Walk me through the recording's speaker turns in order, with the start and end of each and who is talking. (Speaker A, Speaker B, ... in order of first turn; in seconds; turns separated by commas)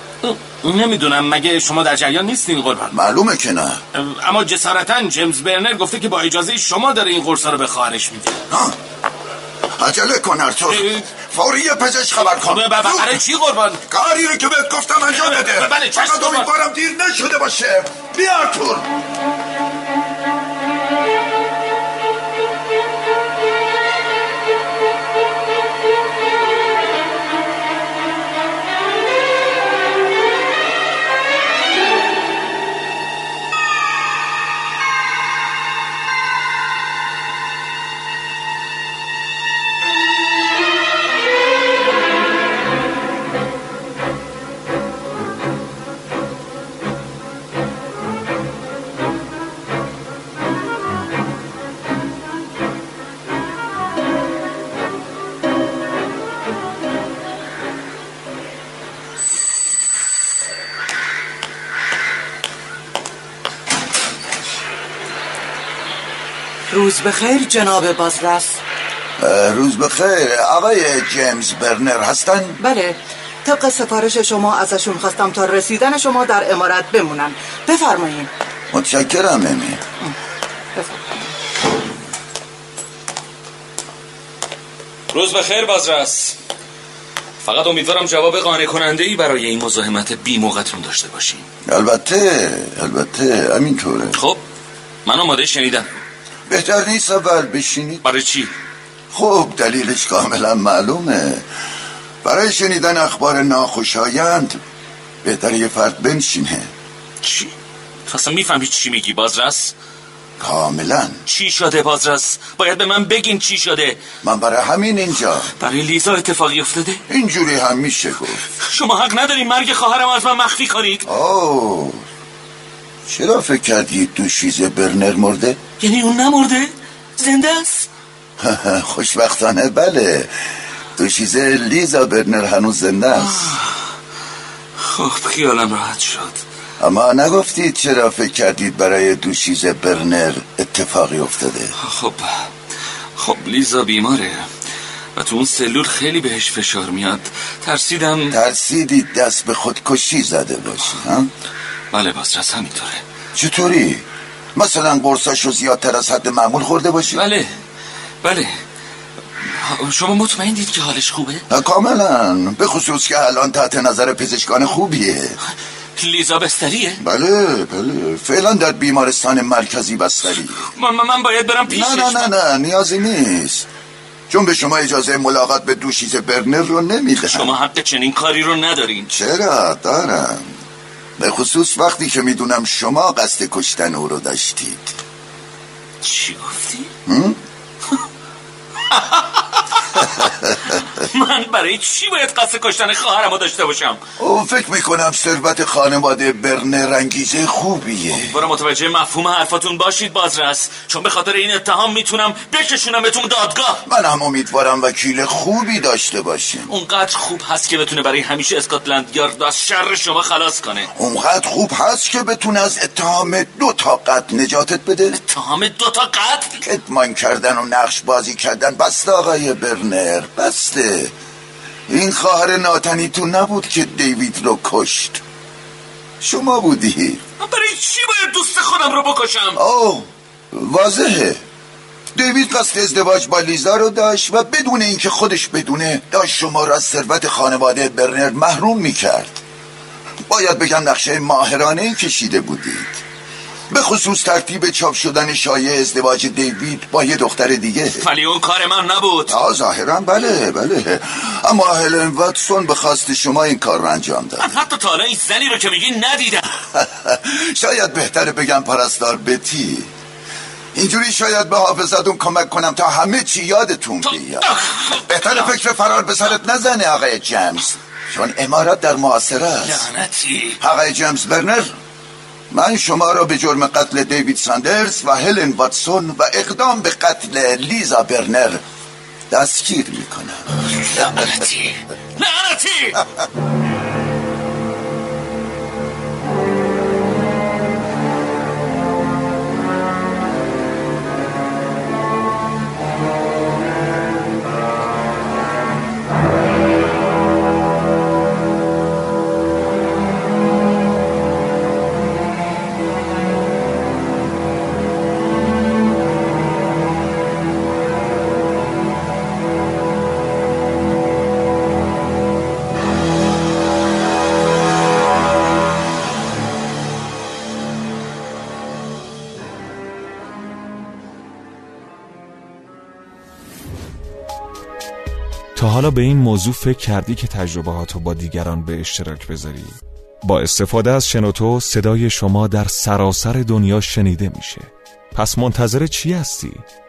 Speaker A: 0.2-2.9, Speaker B: 2.9-3.8, Speaker A: 3.9-8.4, Speaker B: 8.5-8.8, Speaker B: 9.8-13.2, Speaker A: 10.7-11.1, Speaker A: 12.3-13.8, Speaker B: 13.9-18.9, Speaker A: 15.1-16.5, Speaker C: 66.7-68.6, Speaker B: 69.2-72.6, Speaker C: 72.6-78.3, Speaker B: 78.7-79.8, Speaker C: 80.8-81.3, Speaker D: 85.1-86.4, Speaker D: 87.4-91.5, Speaker B: 91.7-94.2, Speaker D: 94.2-94.4, Speaker D: 95.0-95.9, Speaker B: 96.5-98.0, Speaker D: 98.0-98.5, Speaker B: 99.1-101.5, Speaker B: 102.2-104.6, Speaker B: 105.2-106.7, Speaker D: 107.2-107.5, Speaker D: 108.1-109.7, Speaker B: 110.4-111.2, Speaker D: 111.3-114.0, Speaker B: 114.2-115.5, Speaker D: 115.6-117.0, Speaker B: 117.1-118.4, Speaker D: 118.6-121.1, Speaker B: 121.0-122.0, Speaker B: 123.1-125.6, Speaker D: 125.8-127.9, Speaker B: 128.4-130.3, Speaker B: 131.0-133.5, Speaker D: 133.3-133.8, Speaker D: 134.8-136.4, Speaker B: 136.8-141.8, Speaker D: 141.8-142.5, Speaker D: 143.2-144.5, Speaker D: 145.2-148.4, Speaker B: 148.3-151.3, Speaker D: 151.9-153.0, Speaker B: 153.3-154.0, Speaker B: 154.6-157.2, Speaker D: 157.2-157.5, Speaker D: 158.2-158.6, Speaker D: 159.4-161.4, Speaker B: 161.5-165.4, Speaker D: 166.0-167.0, Speaker B: 167.0-170.7, Speaker D: 170.7-172.3, Speaker B: 171.7-173.7, Speaker B: 174.3-177.5, Speaker D: 177.3-179.1, Speaker B: 179.1-180.5, Speaker B: 181.2-184.9, Speaker D: 186.0-186.9, Speaker B: 187.1-187.4, Speaker D: 188.9-194.0, Speaker B: 194.2-198.4, Speaker D: 198.2-203.8, Speaker B: 203.8-206.7, Speaker D: 206.7-210.9, Speaker B: 210.9-215.2, Speaker D: 215.1-216.6, Speaker B: 216.6-221.1, Speaker B: 221.9-225.2, Speaker B: 226.2-227.2, Speaker D: 227.4-229.6, Speaker B: 229.6-231.4, Speaker B: 232.2-239.4, Speaker B: 240.3-243.0, Speaker B: 243.7-248.1, Speaker D: 248.0-249.4, Speaker B: 249.3-254.6, Speaker D: 254.4-256.6, Speaker B: 256.7-259.9, Speaker B: 260.8-269.9, Speaker D: 264.4-265.1, Speaker D: 269.6-270.6, Speaker B: 270.6-271.7, Speaker B: 272.5-278.6, Speaker B: 279.3-280.4, Speaker D: 280.8-283.0, Speaker E: 325.6-336.6